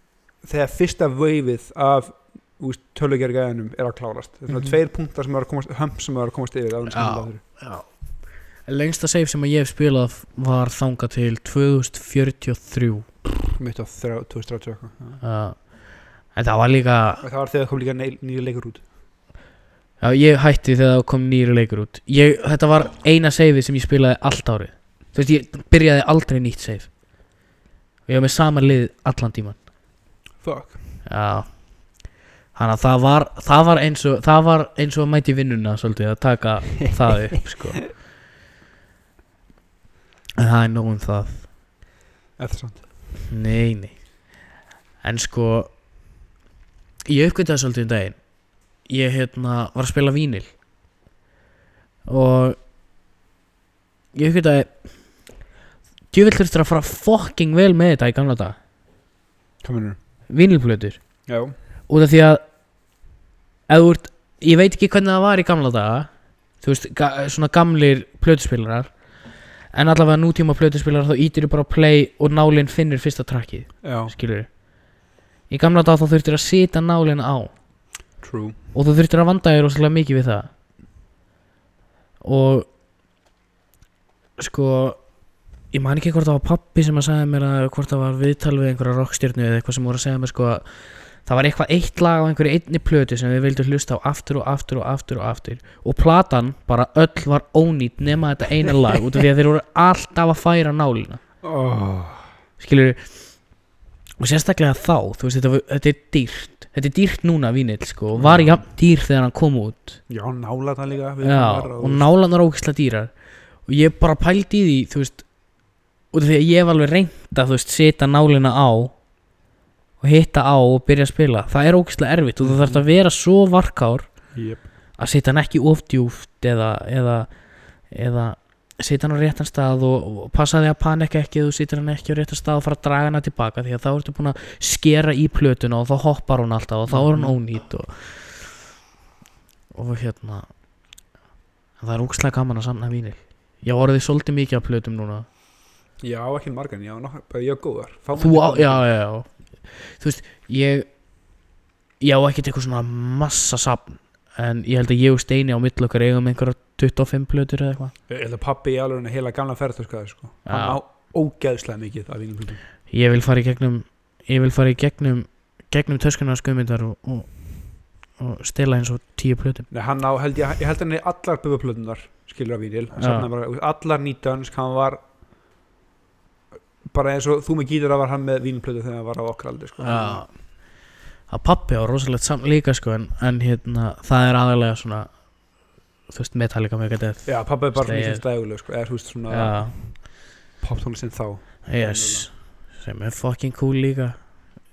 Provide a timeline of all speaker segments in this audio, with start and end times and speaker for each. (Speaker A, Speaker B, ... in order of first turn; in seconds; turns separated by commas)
Speaker A: 0.4-7.4, Speaker B: 6.9-7.9, Speaker B: 8.7-13.1, Speaker A: 13.6-15.2, Speaker B: 15.2-15.6, Speaker B: 16.4-17.2, Speaker A: 17.2-18.8, Speaker B: 20.0-26.9, Speaker B: 28.1-29.6, Speaker A: 30.4-30.8, Speaker B: 31.1-31.6, Speaker B: 32.5-37.9, Speaker B: 40.4-41.5, Speaker A: 42.4-42.9, Speaker B: 43.3-44.0, Speaker B: 45.0-45.7, Speaker B: 47.1-48.2, Speaker B: 48.9-50.5, Speaker B: 52.1-52.6, Speaker B: 54.1-54.7, Speaker B: 56.1-58.6, Speaker A: 59.6-60.0, Speaker B: 60.3-61.0, Speaker A: 61.3-61.5, Speaker B: 61.9-62.4, Speaker B: 63.7-66.1, Speaker B: 66.6-68.9, Speaker B: 69.7-74.5, Speaker A: 73.8-74.1, Speaker B: 75.5-77.5, Speaker A: 78.2-78.6, Speaker B: 78.7-80.5, Speaker B: 82.2-82.7, Speaker B: 84.4-85.0, Speaker B: 85.7-90.6, Speaker B: 91.2-101.2, Speaker A: 101.4-102.3, Speaker B: 102.6-103.1, Speaker B: 104.2-110.0, Speaker A: 108.2-108.6, Speaker A: 110.1-112.1, Speaker B: 111.2-113.1, Speaker B: 113.7-115.2, Speaker B: 116.1-119.0, Speaker B: 120.0-124.1, Speaker A: 122.4-122.8, Speaker A: 124.3-124.6, Speaker B: 125.0-127.3, Speaker B: 127.9-138.4, Speaker A: 136.9-137.4, Speaker B: 139.7-140.5, Speaker B: 141.8-145.3, Speaker A: 146.0-148.9, Speaker B: 148.2-150.9, Speaker B: 152.0-157.9, Speaker A: 158.1-162.6, Speaker B: 160.5-160.8, Speaker B: 162.9-167.6, Speaker B: 168.2-169.7, Speaker A: 169.7-175.0, Speaker B: 173.0-173.3, Speaker A: 176.9-180.2, Speaker B: 179.8-180.3, Speaker B: 181.3-185.1, Speaker B: 186.1-188.2, Speaker A: 187.3-190.0, Speaker B: 189.3-189.7, Speaker A: 190.6-192.3, Speaker B: 191.7-194.2